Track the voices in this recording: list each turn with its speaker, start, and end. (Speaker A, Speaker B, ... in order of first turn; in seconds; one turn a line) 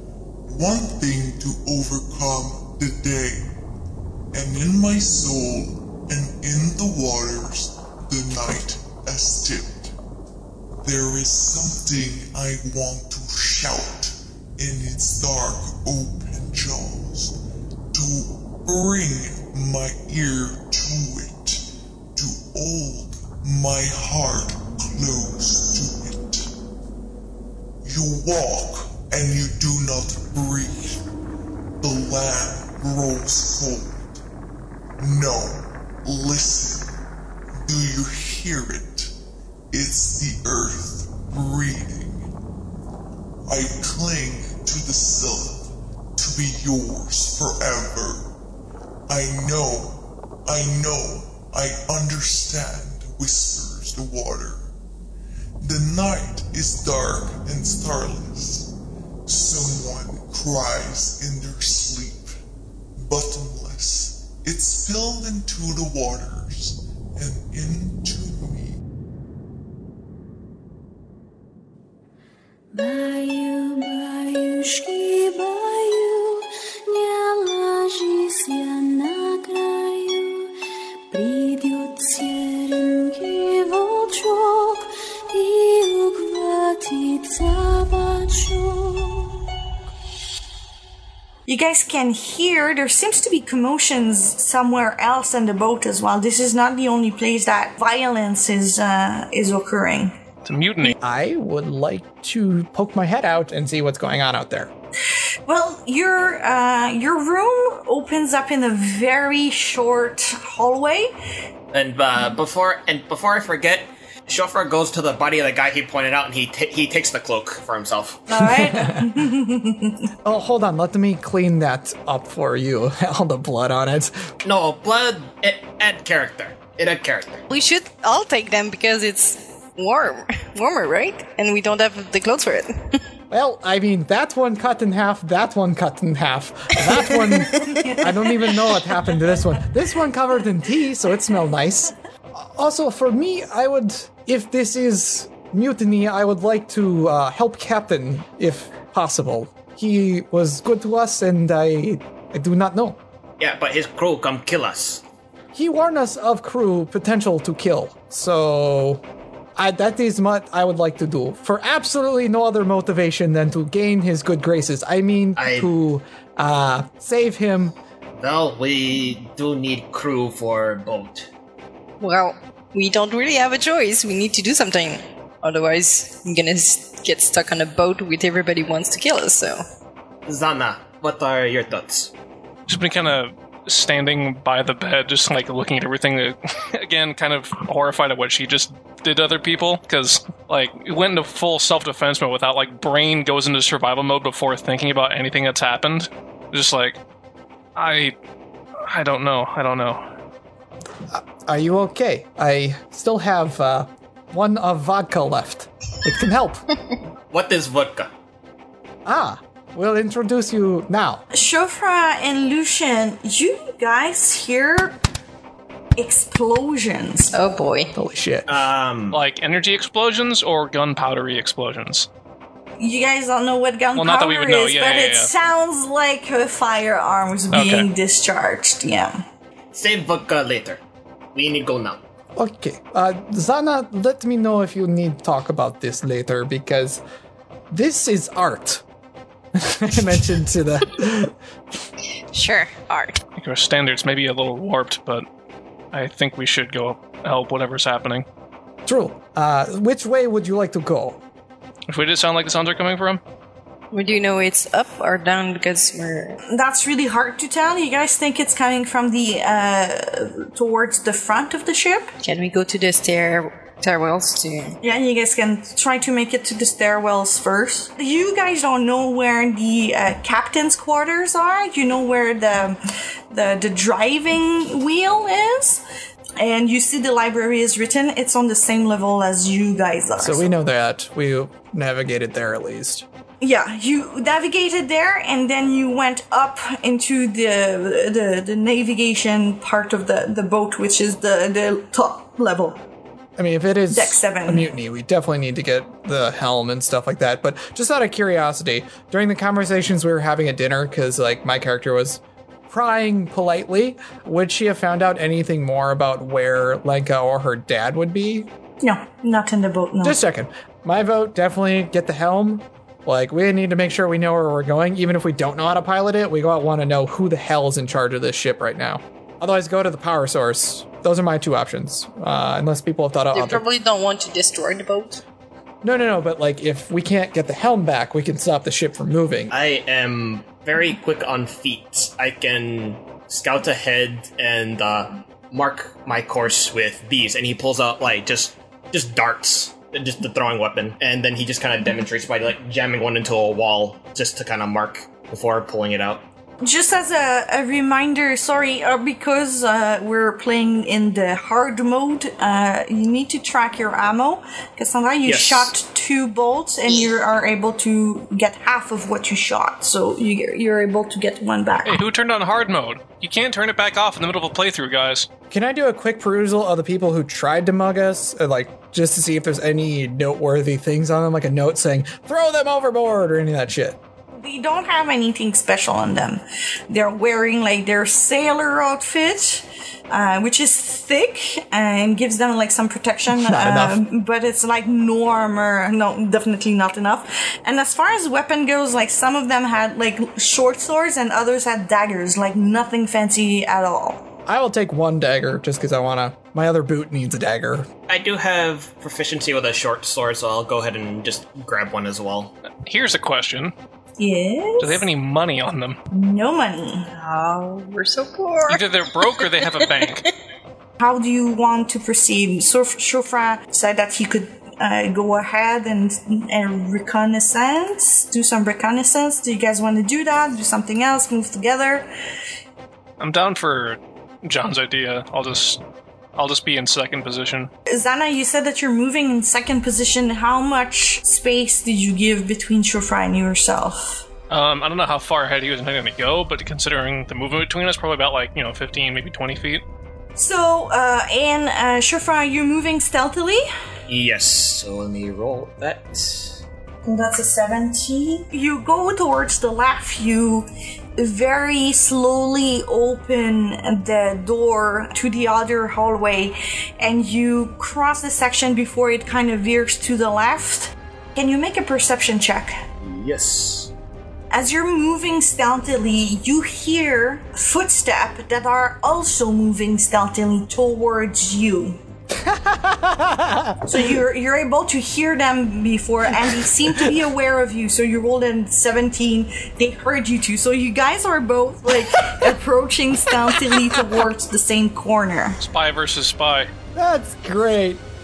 Speaker A: 0.5-3.5
Speaker A: 4.3-9.9
Speaker A: 10.8-17.4
Speaker A: 17.9-26.5
Speaker A: 27.8-31.0
Speaker A: 31.8-34.2
Speaker A: 35.0-37.0
Speaker A: 37.6-39.1
Speaker A: 39.7-42.3
Speaker A: 43.5-48.3
Speaker A: 49.1-54.7
Speaker A: 55.6-58.7
Speaker A: 59.3-62.4
Speaker A: 63.0-68.8
Speaker B: 72.7-76.4
Speaker B: 76.9-80.5
Speaker B: 81.1-89.3
Speaker C: 91.5-100.1
Speaker D: 100.4-101.0
Speaker E: 101.0-104.7
Speaker C: 105.5-111.1
Speaker F: 111.7-118.2
Speaker C: 118.3-120.0
Speaker E: 118.5-119.2
Speaker E: 120.2-124.3
Speaker F: 124.4-127.4
Speaker G: 127.5-133.0
Speaker E: 133.3-153.0
Speaker F: 153.4-155.0
Speaker E: 155.5-159.0
Speaker E: 159.6-167.8
Speaker F: 165.3-165.7
Speaker F: 168.2-171.3
Speaker G: 172.0-179.6
Speaker F: 180.3-182.1
Speaker D: 182.7-197.0
Speaker D: 197.8-198.1
Speaker D: 198.9-200.0
Speaker E: 201.1-206.6
Speaker F: 207.3-208.1
Speaker E: 209.1-211.2
Speaker C: 211.3-215.0
Speaker C: 216.0-217.3
Speaker G: 217.3-217.9
Speaker E: 217.9-218.5
Speaker F: 218.5-219.2
Speaker D: 219.1-222.1
Speaker C: 222.8-229.2
Speaker D: 223.9-225.3
Speaker D: 227.5-227.9
Speaker F: 229.7-230.8
Speaker F: 231.3-232.0
Speaker E: 232.3-237.0
Speaker E: 237.7-238.8
Speaker E: 239.5-241.3
Speaker G: 242.3-243.2
Speaker D: 243.4-245.2
Speaker D: 245.9-248.2
Speaker E: 248.8-251.2
Speaker D: 251.9-253.2
Speaker G: 253.9-256.4
Speaker C: 256.5-262.1
Speaker G: 262.2-264.8
Speaker C: 264.8-272.8
Speaker C: 273.3-275.8
Speaker C: 276.4-280.5
Speaker E: 280.2-283.0
Speaker C: 283.4-292.8
Speaker E: 293.4-308.5
Speaker C: 293.9-294.7
Speaker C: 308.8-310.2
Speaker E: 310.0-323.6
Speaker G: 323.3-325.2
Speaker E: 325.8-329.5
Speaker F: 329.5-346.2
Speaker C: 346.6-362.0
Speaker F: 355.2-355.7
Speaker D: 361.8-365.3
Speaker E: 365.5-374.0
Speaker C: 374.3-394.3
Speaker E: 383.3-384.0
Speaker E: 394.4-397.9
Speaker F: 398.1-402.5
Speaker D: 402.8-403.7
Speaker C: 404.2-405.1
Speaker D: 404.8-406.0
Speaker C: 406.1-407.1
Speaker G: 407.1-410.2
Speaker D: 408.6-410.2
Speaker C: 411.0-422.1
Speaker D: 423.2-425.8
Speaker D: 426.4-427.7
Speaker C: 427.9-434.2
Speaker D: 434.5-439.8
Speaker C: 440.4-443.6
Speaker F: 444.1-446.6
Speaker C: 447.0-462.8
Speaker F: 463.0-463.9
Speaker C: 464.5-472.0
Speaker E: 472.4-474.0
Speaker C: 473.8-485.6
Speaker D: 485.6-486.7
Speaker E: 486.9-488.0